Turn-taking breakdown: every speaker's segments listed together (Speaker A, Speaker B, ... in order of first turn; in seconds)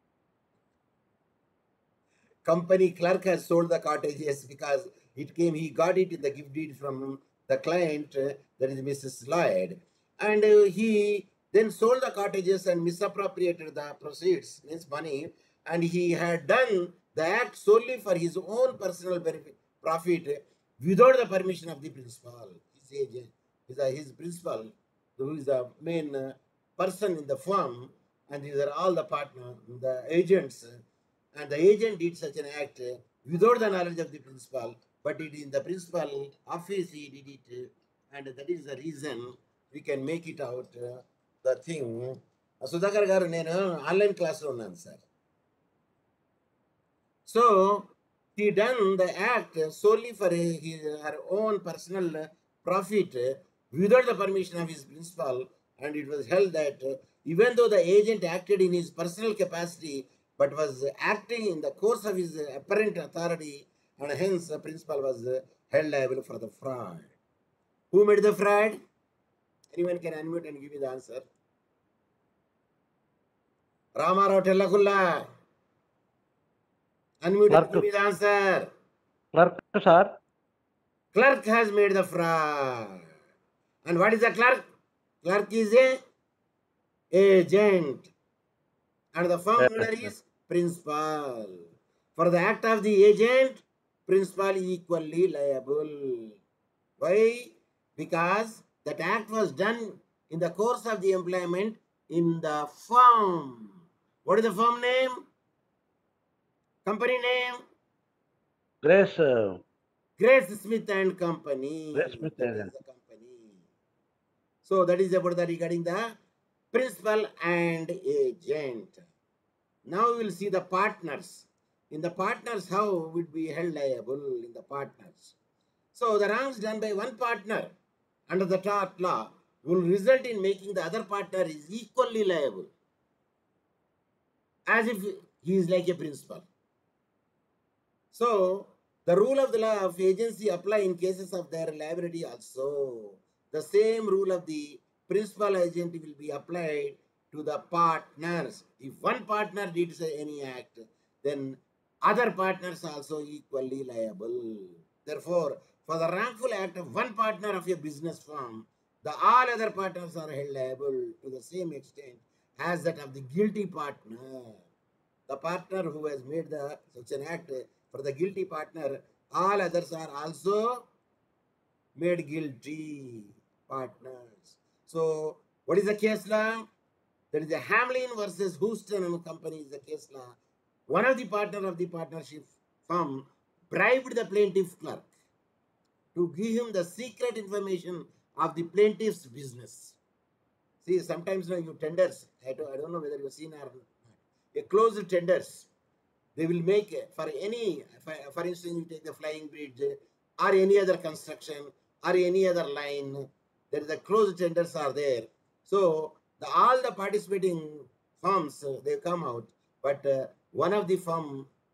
Speaker A: 2.4-30.8, 31.3-45.0, 47.3-67.1, 67.9-68.8, 69.7-71.3, 74.0-75.2, 77.2-78.7, 81.1-83.0, 83.8-84.6, 85.2-86.0, 87.1-88.1, 89.1-96.4, 97.0-103.7, 104.2-105.2, 106.8-107.6, 110.2-113.6, 114.6-116.1, 116.7-119.0, 119.9-125.3, 125.9-127.7, 128.3-132.7, 134.7-136.5, 138.1-164.6, 165.3-170.8, 171.9-176.7, 177.3-180.3, 180.9-185.1, 186.1-190.0, 190.8-195.7, 196.3-211.5
Speaker B: 77.5-77.9, 79.3-80.2, 89.6-90.1, 108.8-109.6, 111.9-112.7